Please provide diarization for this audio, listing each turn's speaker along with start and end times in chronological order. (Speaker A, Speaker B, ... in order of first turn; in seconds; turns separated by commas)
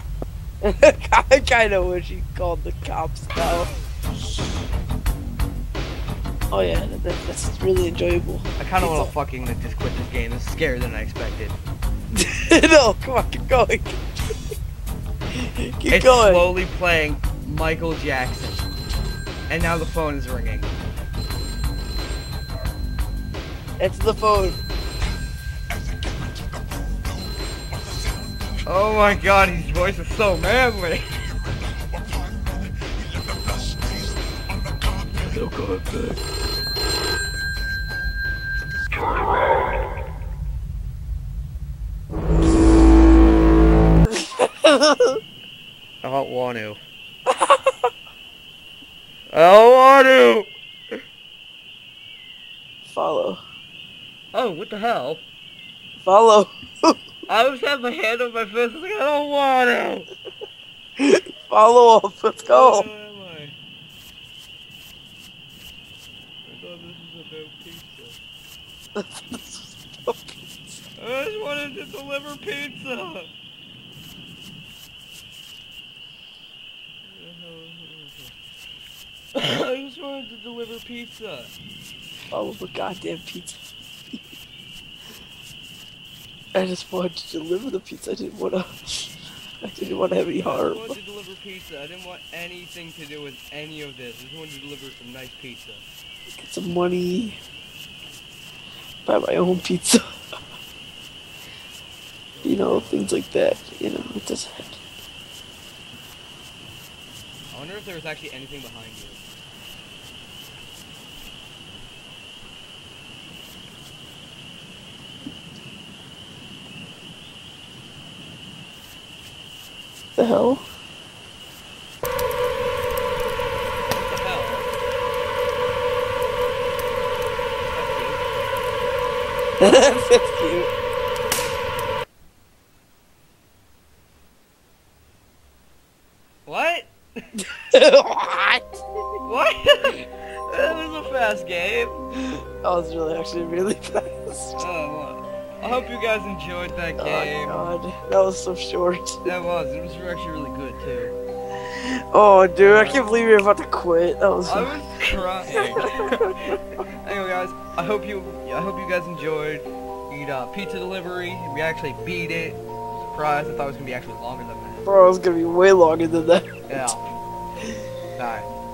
Speaker A: 0.6-3.7, Speaker A: 6.5-9.1, Speaker B: 8.6-11.6, Speaker A: 12.2-14.1, Speaker A: 15.3-16.5, Speaker B: 15.9-18.7, Speaker B: 19.5-20.8, Speaker A: 23.8-24.6, Speaker B: 28.7-31.1, Speaker B: 35.0-36.2, Speaker A: 44.4-45.2, Speaker B: 46.0-46.8, Speaker A: 47.3-47.7, Speaker B: 49.3-50.5, Speaker A: 52.9-53.4, Speaker B: 54.3-55.2, Speaker A: 56.0-57.0, Speaker B: 57.3-60.1, Speaker A: 61.0-62.9, Speaker B: 62.5-63.6, Speaker B: 66.5-68.2, Speaker A: 69.0-70.4, Speaker B: 71.0-73.3, Speaker B: 77.0-78.3, Speaker B: 79.3-81.5, Speaker A: 82.3-83.6, Speaker A: 86.5-89.1, Speaker A: 89.6-91.0, Speaker B: 90.4-95.8, Speaker A: 96.3-97.4, Speaker A: 99.1-100.0, Speaker B: 102.3-103.3, Speaker A: 102.4-104.8, Speaker B: 107.5-109.2, Speaker A: 120.2-120.6, Speaker B: 123.9-124.7, Speaker B: 127.7-128.2, Speaker A: 129.6-130.7, Speaker B: 136.5-136.9, Speaker A: 137.4-138.7, Speaker B: 139.2-142.0, Speaker A: 142.6-144.6, Speaker B: 144.6-147.7, Speaker A: 147.0-149.2, Speaker B: 149.2-151.1, Speaker A: 152.1-154.8, Speaker B: 152.6-153.1, Speaker B: 154.5-164.9, Speaker A: 155.5-156.6, Speaker A: 164.8-166.9, Speaker B: 166.7-167.1, Speaker B: 168.2-168.5